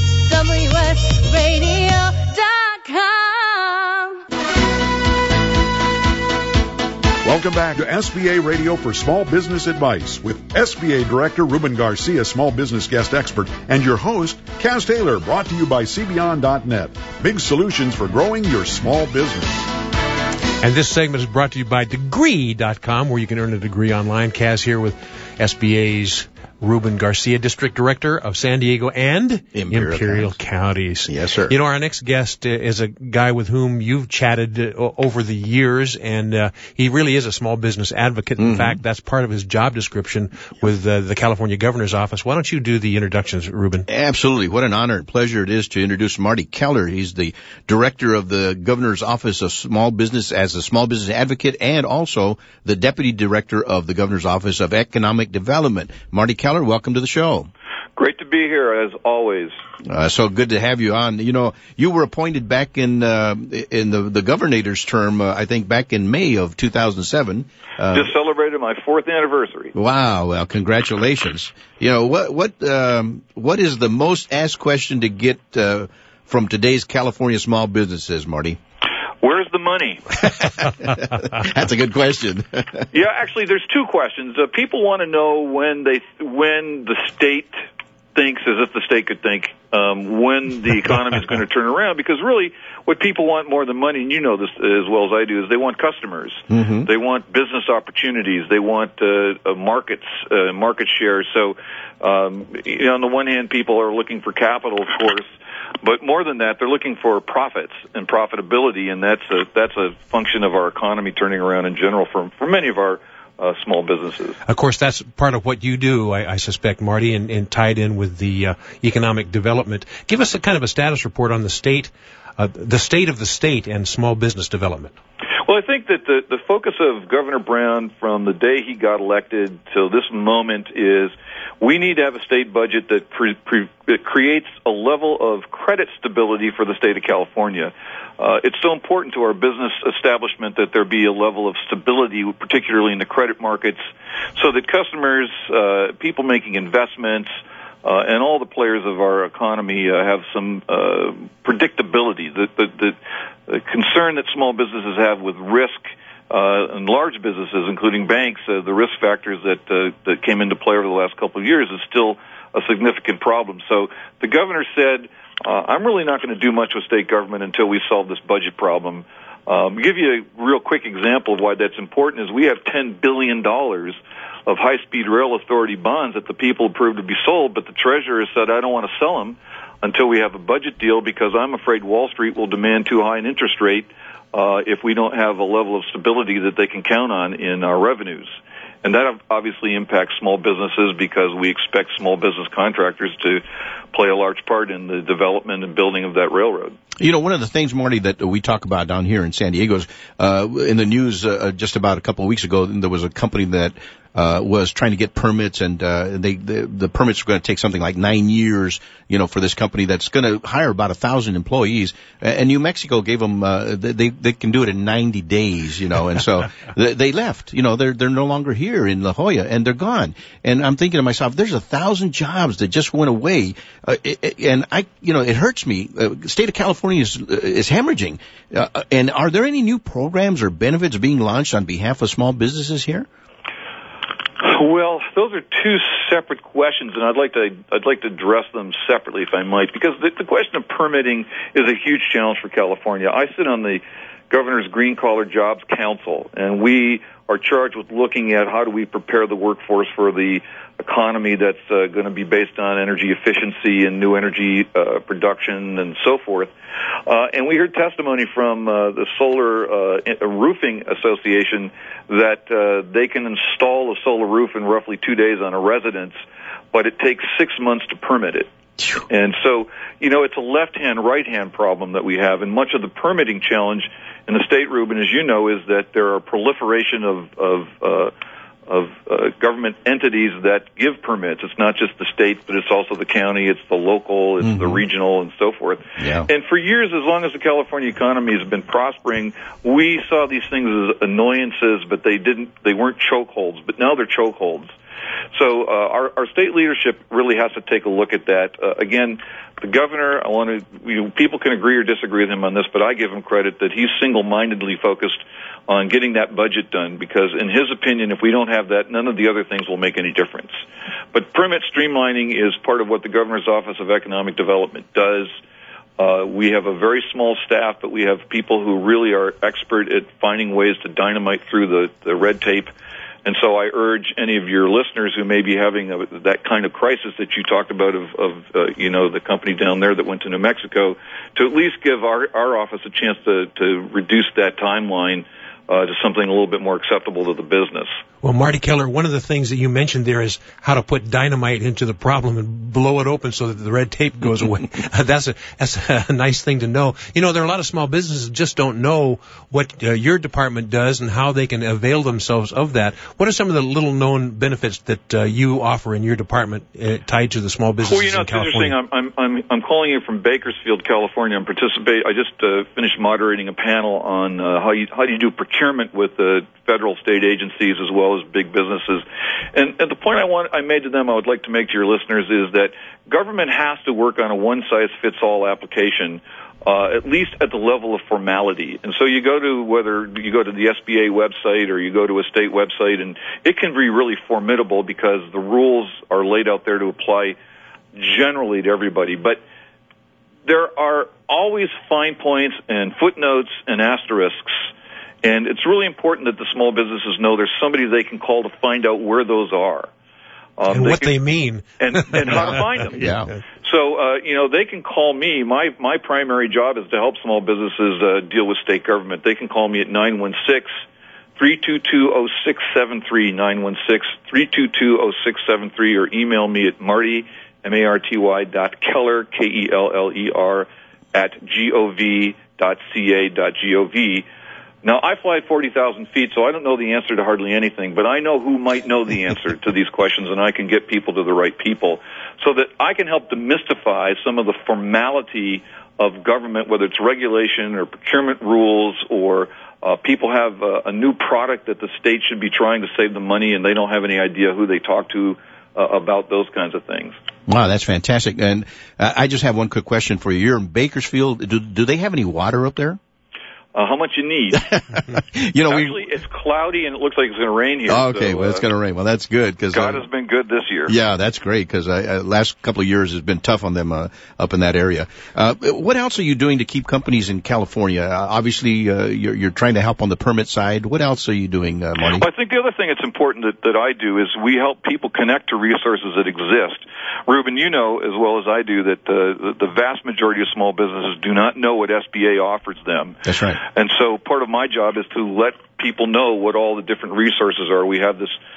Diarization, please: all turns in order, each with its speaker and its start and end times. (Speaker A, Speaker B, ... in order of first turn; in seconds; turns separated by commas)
Speaker A: 0.3-4.2, Speaker B: 7.2-19.7, Speaker C: 20.6-43.9, Speaker D: 29.5-30.4, Speaker D: 31.1-31.6, Speaker D: 38.4-38.8, Speaker D: 43.9-57.5, Speaker E: 58.0-59.5, Speaker D: 59.9-68.1, Speaker E: 67.9-69.7, Speaker D: 69.8-78.6, Speaker E: 79.2-80.0, Speaker D: 80.2-82.9, Speaker E: 82.9-87.5, Speaker E: 88.2-114.4, Speaker D: 96.5-96.9, Speaker C: 114.5-124.9, Speaker E: 125.5-143.8, Speaker E: 144.4-147.3, Speaker E: 147.8-188.3, Speaker E: 188.8-193.4, Speaker E: 193.9-196.8, Speaker D: 197.0-233.1, Speaker E: 234.4-256.5, Speaker E: 257.1-266.1, Speaker E: 266.7-268.5, Speaker E: 269.1-278.1, Speaker E: 278.7-294.7, Speaker D: 284.4-284.8, Speaker D: 286.0-286.3, Speaker E: 295.3-310.6, Speaker E: 311.1-315.3, Speaker E: 316.0-322.7, Speaker E: 323.2-337.9, Speaker C: 338.2-358.8, Speaker E: 357.8-387.4, Speaker E: 388.0-389.4, Speaker E: 390.4-394.6, Speaker E: 395.2-399.9, Speaker E: 400.6-401.2, Speaker C: 400.7-403.0, Speaker E: 401.8-403.1, Speaker D: 402.9-403.3, Speaker E: 403.6-410.7, Speaker E: 411.4-424.3, Speaker E: 424.8-447.1, Speaker D: 447.5-453.0, Speaker E: 453.7-454.6, Speaker D: 454.5-456.0, Speaker E: 455.7-458.6, Speaker D: 457.9-460.0, Speaker E: 459.7-460.9, Speaker D: 460.9-472.3, Speaker E: 472.1-483.2, Speaker D: 483.2-483.6, Speaker E: 483.7-488.4